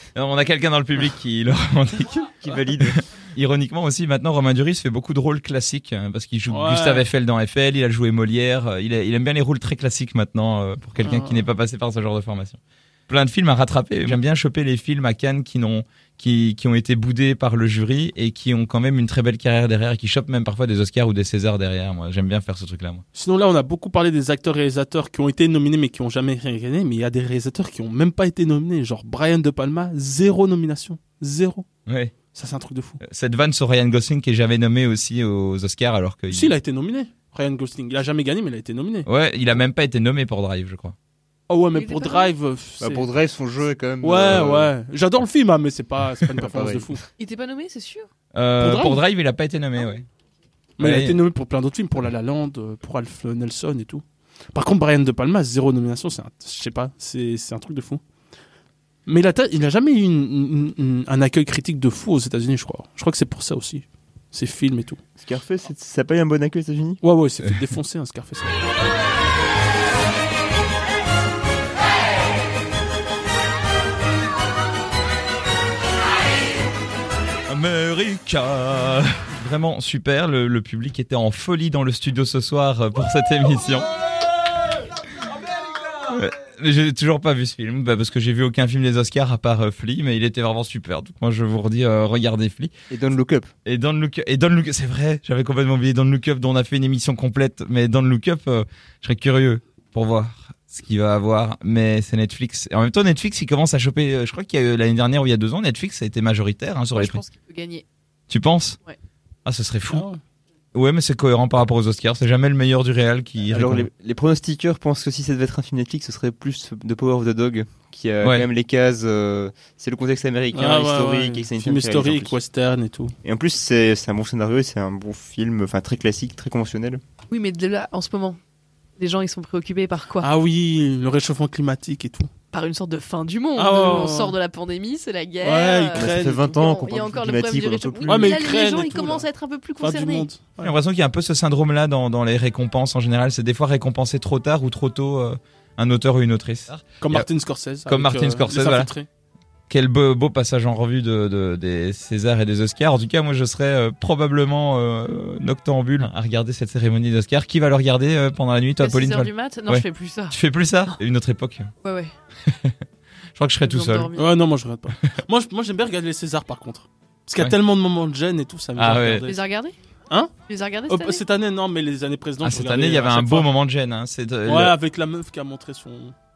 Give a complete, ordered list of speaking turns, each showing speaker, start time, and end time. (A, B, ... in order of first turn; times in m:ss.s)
0:00.2-0:23.0 A
0:02.4-0:03.0 B
0:06.5-0:07.1 C
0:11.0-0:11.4 C
0:23.2-0:31.7 C
0:31.9-0:32.2 A
0:32.3-0:33.0 C
0:33.0-0:36.6 A
0:36.3-0:39.1 C
0:39.1-0:41.0 A
0:41.5-0:43.1 C
0:41.7-0:42.3 D
0:42.8-0:44.7 B
0:44.0-0:47.0 C
0:46.4-0:47.0 B
0:47.2-0:48.1 D
0:48.3-0:50.1 A
0:48.6-0:49.0 C
0:50.8-0:58.0 C
0:50.8-0:51.2 A
0:59.1-1:05.0 C
1:05.2-1:07.0 B
1:07.0-1:08.6 C
1:17.5-1:23.9 A
1:25.2-1:32.7 A
1:32.9-1:33.5 B
1:33.7-1:47.2 A
1:47.0-1:47.8 D
1:48.3-1:48.8 A
1:49.5-1:50.1 A
1:49.9-1:50.2 C
1:50.7-1:53.9 A
1:53.5-2:02.4 B
1:58.2-1:58.5 A
2:00.5-2:03.1 C
2:03.2-2:07.0 B
2:07.3-2:08.4 D
2:09.0-2:10.3 D
2:10.2-2:12.3 C
2:12.5-2:20.3 D
2:13.6-2:14.4 C
2:15.4-2:16.5 C
2:16.0-2:18.4 B
2:18.1-2:19.3 C
2:19.8-2:20.7 C
2:20.6-2:27.3 A
2:27.0-2:29.1 C
2:27.9-2:28.9 A
2:29.7-2:41.7 A
2:38.8-2:40.4 D
2:41.8-2:42.1 D
2:42.5-2:42.8 A
2:43.4-2:44.1 A
2:43.6-2:44.3 D
2:44.2-2:49.4 C
2:48.8-2:49.3 A
2:49.3-2:49.8 D
2:50.1-2:50.4 C
2:50.4-2:51.2 D
2:50.9-2:53.5 C
2:52.4-2:54.8 A
2:54.4-2:56.1 C